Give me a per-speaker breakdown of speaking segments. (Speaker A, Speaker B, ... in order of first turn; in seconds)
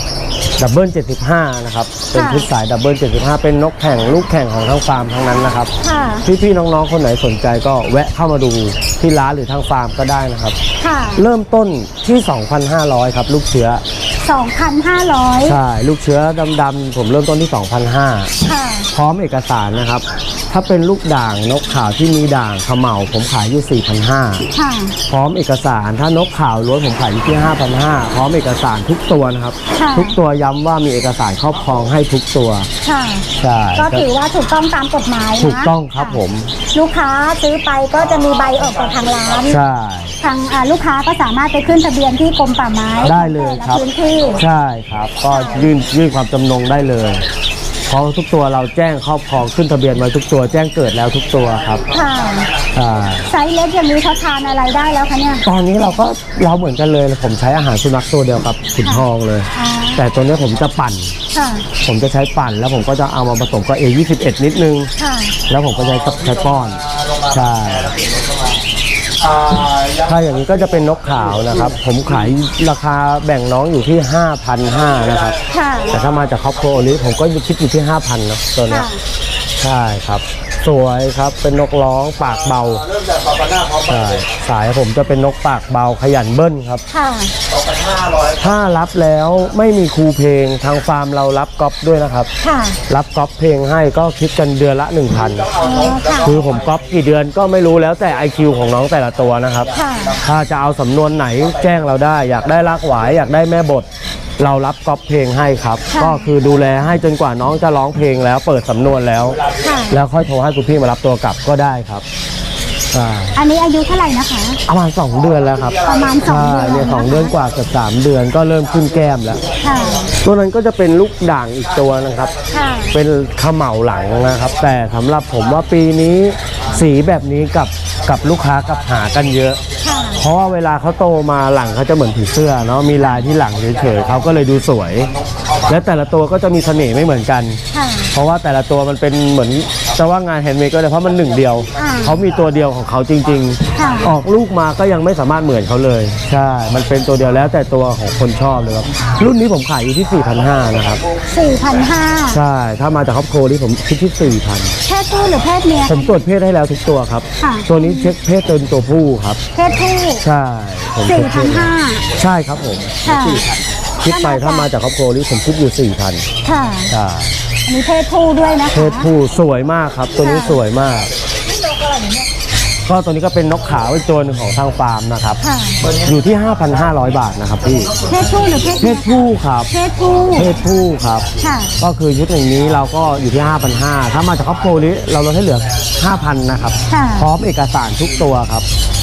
Speaker A: 0.6-5.7, 6.2-10.6, 11.2-13.8, 15.4-18.3, 18.9-24.4, 25.1-32.7, 33.4-34.0, 35.4-36.5, 39.5-40.1, 43.0-43.8, 44.4-47.2, 47.9-51.8, 52.7-53.3, 55.4-61.1, 61.8-64.9, 65.5-67.9, 70.0-75.3, 75.9-78.8, 79.6-82.8, 83.8-86.8, 88.4-92.3, 92.9-95.5, 96.2-99.7, 100.2-103.9, 104.4-109.4, 109.9-112.0, 112.9-113.3, 114.7-119.4, 120.2-122.3, 122.9-129.6, 130.2-135.1, 135.7-137.6, 138.1-151.0, 152.3-154.8, 155.8-159.4, 160.2-163.5, 164.0-166.2, 166.9-167.3, 168.7-171.1, 172.8-175.4, 176.0-177.9, 178.8-179.7, 180.3-181.2, 181.8-188.7
Speaker B: 2.1-2.5, 5.8-6.2, 10.8-11.2, 14.2-15.6, 18.4-18.9, 24.5-24.9, 29.8-30.1, 32.8-36.2, 36.7-39.6, 40.2-44.4, 45.3-45.7, 51.9-52.5, 53.3-55.4, 58.8-60.0, 61.3-61.6, 65.0-65.3, 75.5-75.9, 78.7-79.0, 86.9-87.3, 92.4-92.8, 95.6-96.4, 99.7-100.2, 105.9-106.3, 109.6-110.0, 113.3-114.6, 115.8-117.3, 119.6-120.1, 122.5-122.9, 129.8-130.2, 137.7-138.1, 141.8-142.2, 143.7-144.1, 151.3-152.4, 154.9-156.2, 157.4-158.1, 159.5-160.2, 161.1-162.0, 163.0-163.4, 164.1-164.7, 166.4-166.9, 167.7-169.1, 170.2-170.6, 171.5-172.3, 175.4-175.8, 178.1-180.6, 181.4-181.7, 186.9-187.3